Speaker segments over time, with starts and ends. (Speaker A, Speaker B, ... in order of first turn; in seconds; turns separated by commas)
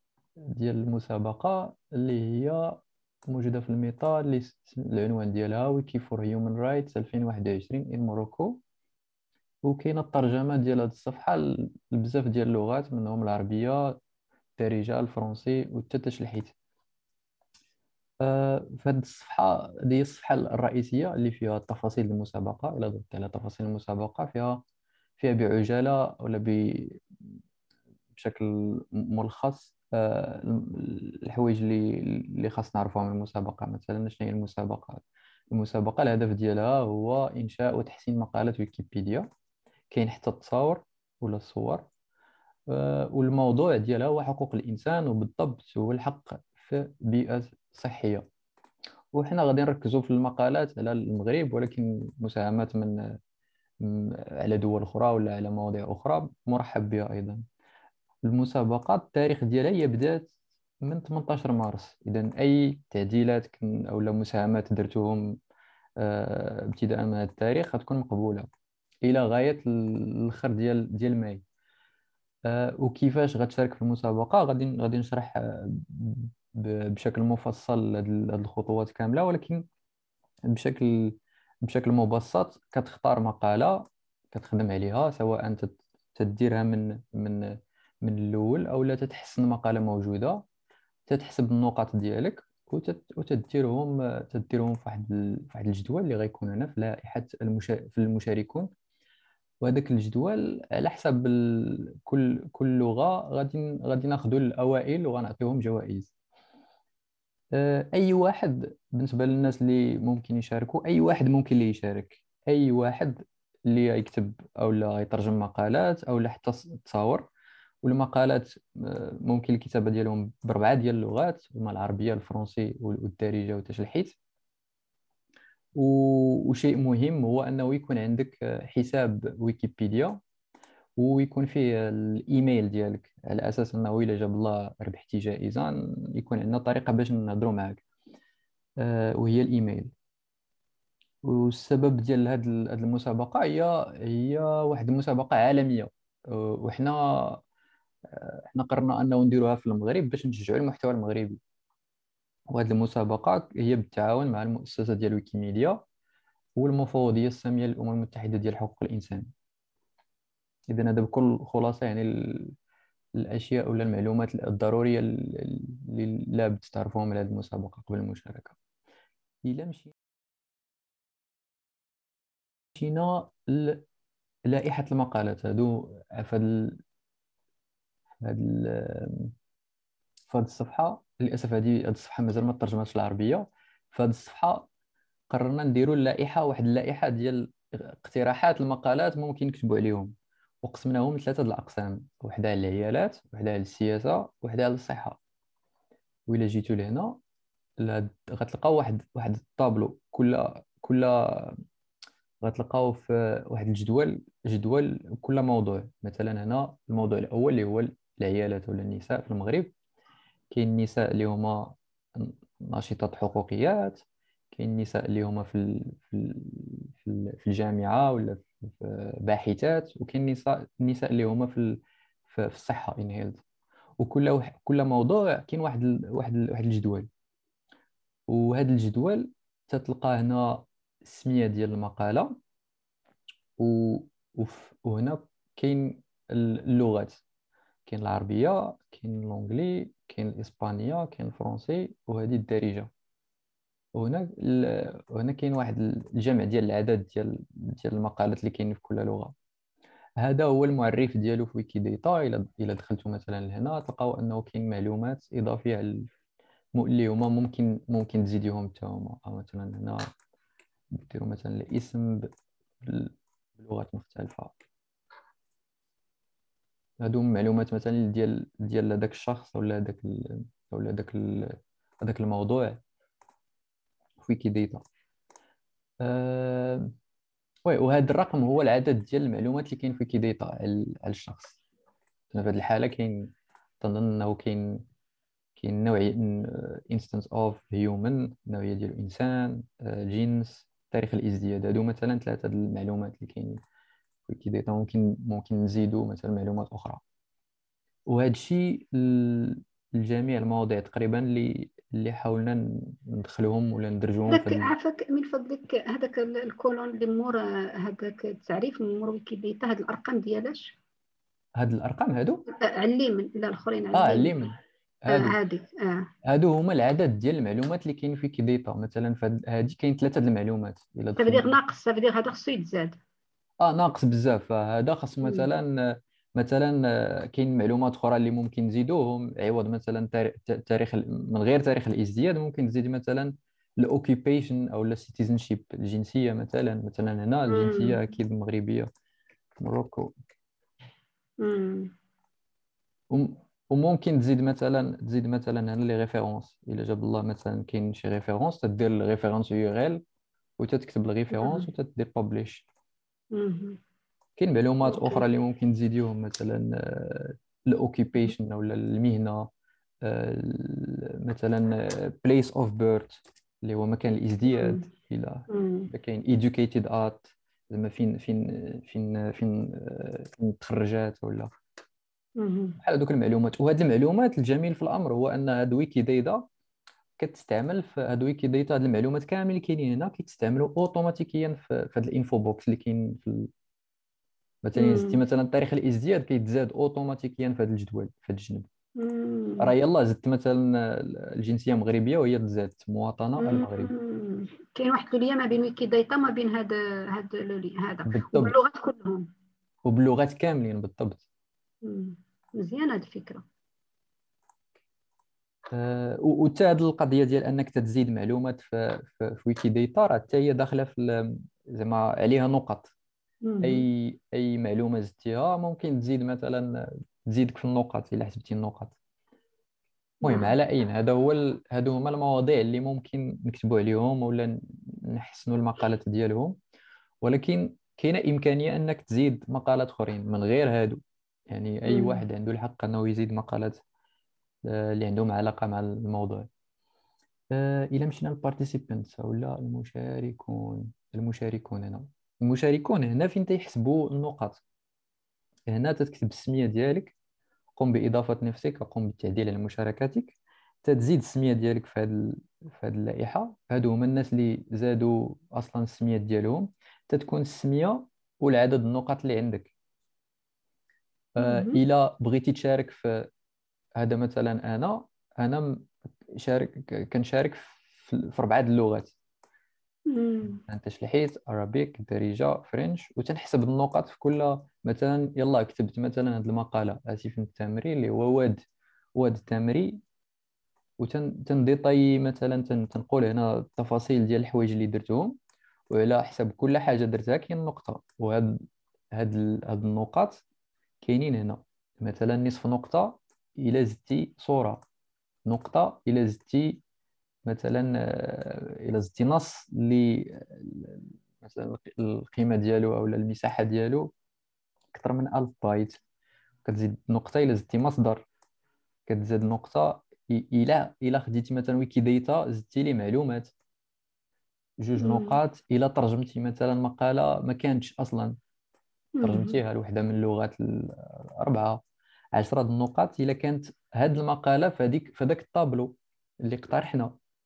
Speaker A: 0.5-8.6, Speaker A: 9.7-14.0, Speaker A: 14.6-16.6, Speaker A: 18.2-24.6, Speaker A: 25.2-27.0, Speaker A: 28.1-39.3, Speaker A: 39.9-41.9, Speaker A: 42.7-48.2, Speaker A: 49.1-53.2, Speaker A: 53.8-57.4, Speaker A: 58.2-60.3, Speaker A: 60.8-65.4, Speaker A: 66.0-68.5, Speaker A: 69.0-71.4, Speaker A: 72.5-79.7, Speaker A: 80.5-90.4, Speaker A: 91.1-98.7, Speaker A: 99.6-106.1, Speaker A: 107.5-117.2, Speaker A: 117.8-124.2, Speaker A: 125.8-130.2, Speaker A: 131.0-137.8, Speaker A: 138.8-139.9, Speaker A: 141.2-147.4, Speaker A: 148.1-151.4, Speaker A: 152.5-155.8, Speaker A: 156.6-159.3, Speaker A: 160.7-162.5, Speaker A: 163.2-168.6, Speaker A: 169.4-169.9, Speaker A: 172.8-173.8, Speaker A: 174.5-176.8, Speaker A: 178.2-179.3, Speaker A: 180.3-184.7, Speaker A: 185.3-195.2, Speaker A: 196.3-197.2, Speaker A: 197.8-201.6, Speaker A: 202.4-209.7, Speaker A: 210.5-223.4, Speaker A: 224.0-227.1, Speaker A: 228.3-232.4, Speaker A: 233.6-237.2, Speaker A: 237.9-242.9, Speaker A: 243.9-249.3, Speaker A: 250.2-256.1, Speaker A: 256.8-260.1, Speaker A: 260.9-262.3, Speaker A: 262.8-264.6, Speaker A: 267.0-272.8, Speaker A: 274.2-274.9, Speaker A: 276.0-276.9, Speaker A: 277.7-281.6, Speaker A: 282.3-284.8, Speaker A: 285.6-293.6, Speaker A: 294.3-297.0, Speaker A: 298.1-304.7, Speaker B: 304.3-310.8, Speaker A: 311.6-312.4, Speaker B: 312.5-314.4, Speaker A: 313.9-315.4, Speaker B: 315.1-316.1, Speaker A: 316.3-321.6, Speaker B: 321.2-323.0, Speaker A: 323.6-338.9, Speaker B: 325.2-325.5, Speaker B: 337.5-338.0, Speaker A: 339.6-340.1, Speaker B: 341.4-341.9, Speaker A: 343.1-350.0, Speaker A: 350.6-352.7, Speaker B: 351.3-351.7, Speaker B: 353.3-353.8, Speaker A: 354.4-359.5, Speaker B: 354.8-355.2, Speaker A: 360.0-371.5, Speaker B: 364.5-364.8, Speaker B: 365.5-365.9, Speaker B: 372.4-372.8, Speaker A: 372.8-376.4, Speaker A: 377.2-383.5, Speaker A: 384.6-388.7, Speaker B: 384.8-385.2, Speaker B: 389.0-389.7, Speaker A: 389.6-393.9, Speaker B: 393.4-399.3, Speaker A: 398.1-398.6, Speaker A: 399.9-401.2, Speaker B: 401.8-403.4, Speaker A: 405.7-412.9, Speaker B: 413.4-413.9, Speaker A: 413.6-418.9, Speaker B: 420.2-420.5, Speaker A: 420.2-426.6, Speaker A: 427.2-431.0, Speaker A: 431.5-433.8, Speaker B: 431.9-432.2, Speaker A: 434.7-436.5, Speaker A: 437.5-444.6, Speaker A: 445.7-447.1, Speaker A: 447.8-459.7, Speaker A: 461.4-463.3, Speaker B: 461.4-461.8, Speaker A: 464.0-469.2, Speaker B: 470.1-470.6, Speaker A: 470.7-478.6, Speaker A: 479.2-480.0, Speaker A: 481.0-485.4, Speaker A: 485.9-488.6, Speaker A: 489.1-490.4, Speaker A: 491.0-494.8, Speaker A: 495.5-496.8, Speaker A: 497.5-504.1, Speaker A: 504.9-506.0, Speaker A: 506.6-508.2, Speaker A: 509.1-513.5, Speaker A: 514.8-518.4, Speaker B: 515.0-515.4, Speaker B: 519.2-519.6, Speaker A: 519.2-521.8, Speaker A: 522.4-527.1